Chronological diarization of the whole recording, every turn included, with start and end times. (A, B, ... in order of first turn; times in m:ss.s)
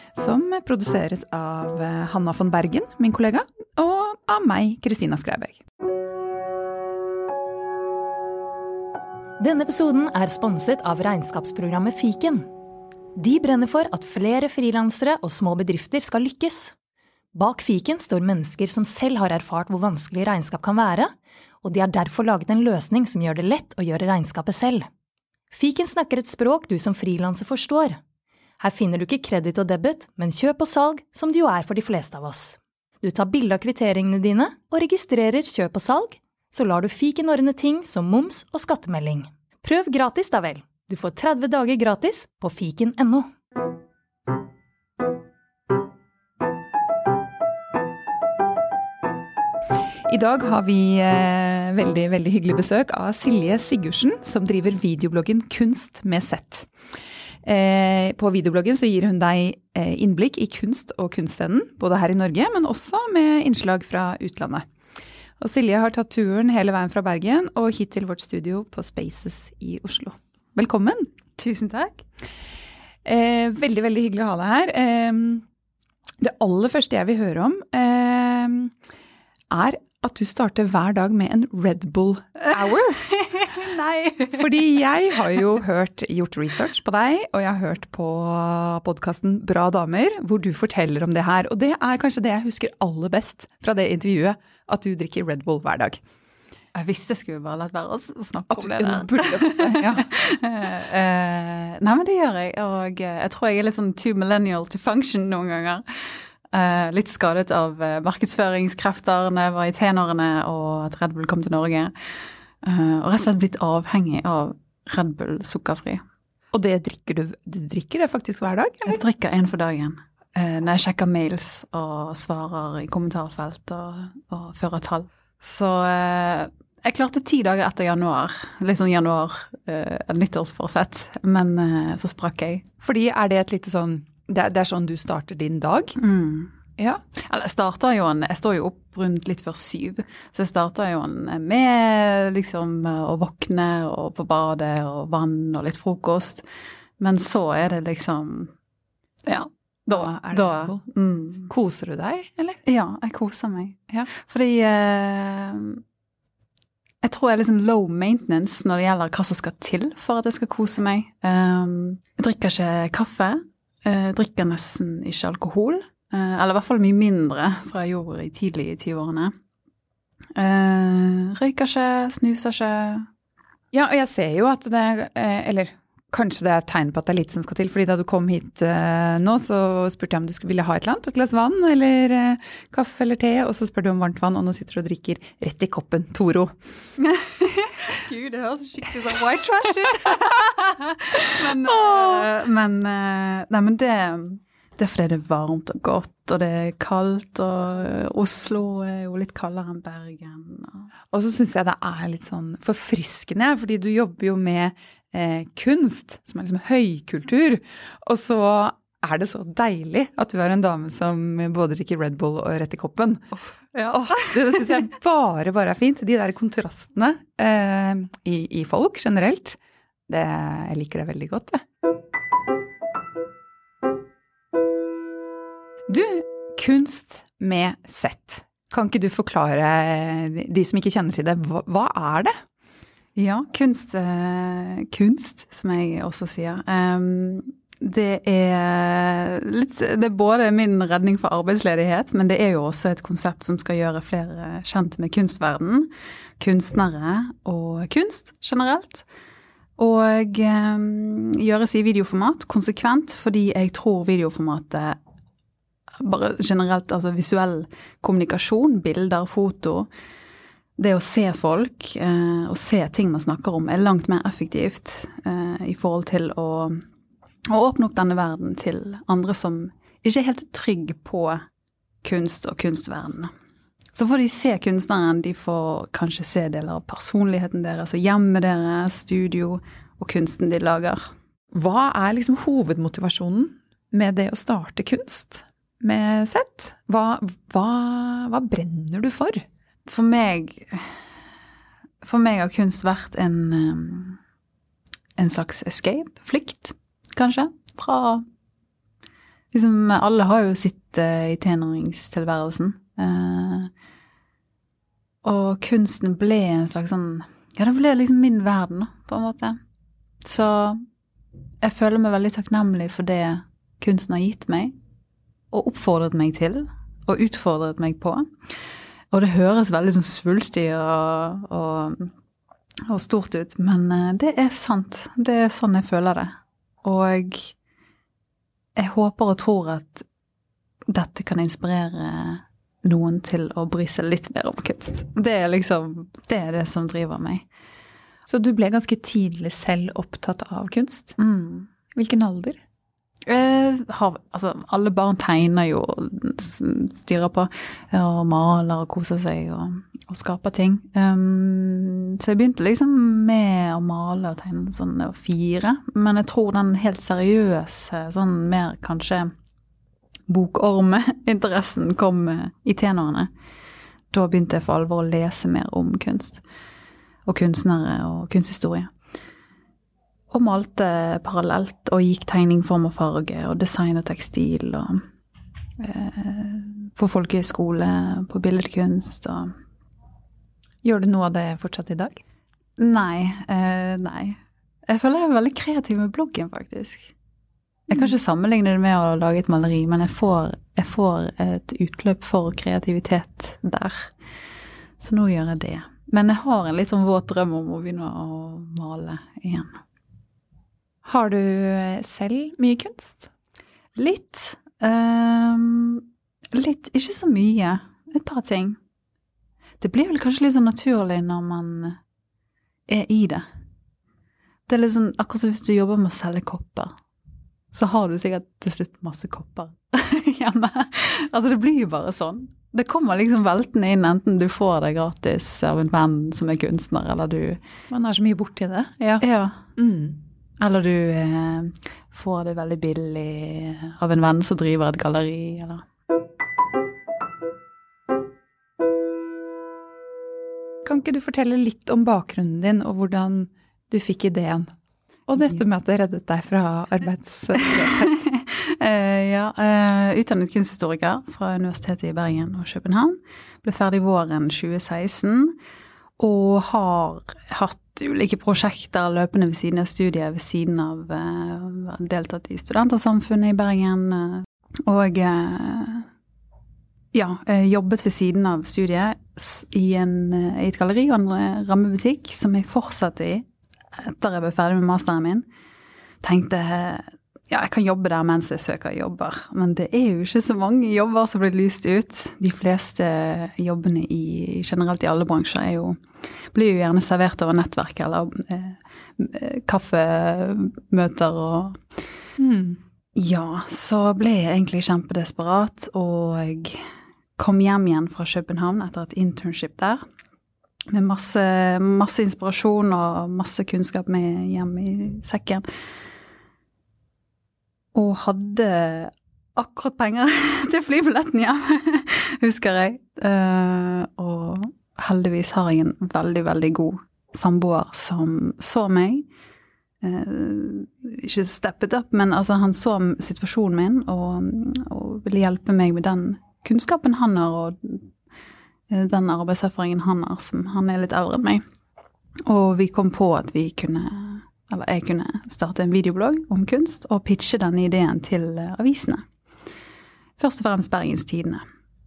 0:00.1-0:05.6 A
0:09.4-0:12.4 B
0:13.2-0:16.7 B
0:17.3-0:21.1 B
0:21.6-0:24.9 B
0:25.5-0:28.0 B
0:28.6-0:43.3 B
0:50.1-0:56.7 A
0:57.4-1:04.6 A
1:05.4-1:11.1 A
1:11.4-1:12.0 C
1:13.0-1:15.4 A
1:16.2-1:18.7 A
1:19.5-1:23.1 A
1:22.7-1:24.4 C
1:24.3-1:36.0 A
1:36.7-1:51.9 C
1:38.5-1:40.1 A
1:52.6-1:56.0 C
1:56.5-1:59.0 A
1:58.8-2:12.6 C
2:12.8-2:16.0 A
2:16.0-2:16.5 C
2:17.2-2:26.4 C
2:27.0-2:28.5 C
2:29.2-2:31.5 C
2:29.9-2:30.8 A
2:31.5-2:32.6 A
2:32.6-2:35.8 C
2:37.0-2:49.3 C
2:50.4-2:53.1 C
2:53.7-3:06.6 A
3:07.0-3:20.9 C
3:11.4-3:12.2 A
3:21.1-3:41.6 A
3:33.7-3:34.8 C
3:45.9-3:52.3 A
3:53.2-4:09.0 C
4:09.8-4:15.0 C
4:16.0-4:19.9 C
4:20.8-4:26.8 C
4:27.5-4:31.4 C
4:32.0-4:33.3 C
4:34.0-4:41.1 C
4:41.5-4:49.4 A
4:49.9-4:51.0 C
4:52.0-4:54.2 C
4:55.2-4:58.2 C
4:59.5-5:03.7 C
5:05.2-5:09.6 C
5:10.2-5:10.8 C
5:11.6-5:14.7 C
5:15.5-5:18.2 C
5:19.1-5:22.1 C
5:22.9-5:27.5 C
5:28.8-5:30.0 C
5:30.9-5:37.4 C
5:38.2-5:41.2 A
5:41.2-5:41.7 C
5:41.9-5:42.6 A
5:43.2-5:59.3 C
6:00.3-6:03.3 C
6:04.1-6:06.4 C
6:07.2-6:08.9 C
6:10.3-6:15.0 C
6:15.8-6:19.5 C
6:20.8-6:22.2 A
6:22.8-6:27.1 C
6:27.9-6:34.1 C
6:35.0-6:39.8 C
6:41.0-6:43.3 A
6:44.0-6:48.8 C
6:49.8-6:52.0 C
6:52.9-6:53.4 C
6:54.7-6:56.9 C
6:57.7-7:07.6 C
7:07.9-7:09.2 A
7:09.2-7:09.6 C
7:09.8-7:10.2 A
7:10.6-7:15.8 C
7:20.8-7:24.7 A
7:25.3-7:28.1 A
7:27.8-7:35.5 C
7:36.2-7:46.1 C
7:47.1-7:55.4 C
7:56.2-8:06.0 C
8:06.5-8:11.8 C
8:12.4-8:12.8 A
8:13.2-8:16.8 C
8:17.4-8:20.0 C
8:20.9-8:25.6 C
8:27.9-8:39.2 C
8:40.0-8:48.1 C
8:48.9-8:51.6 C
8:52.4-8:59.2 C
9:00.4-9:01.6 C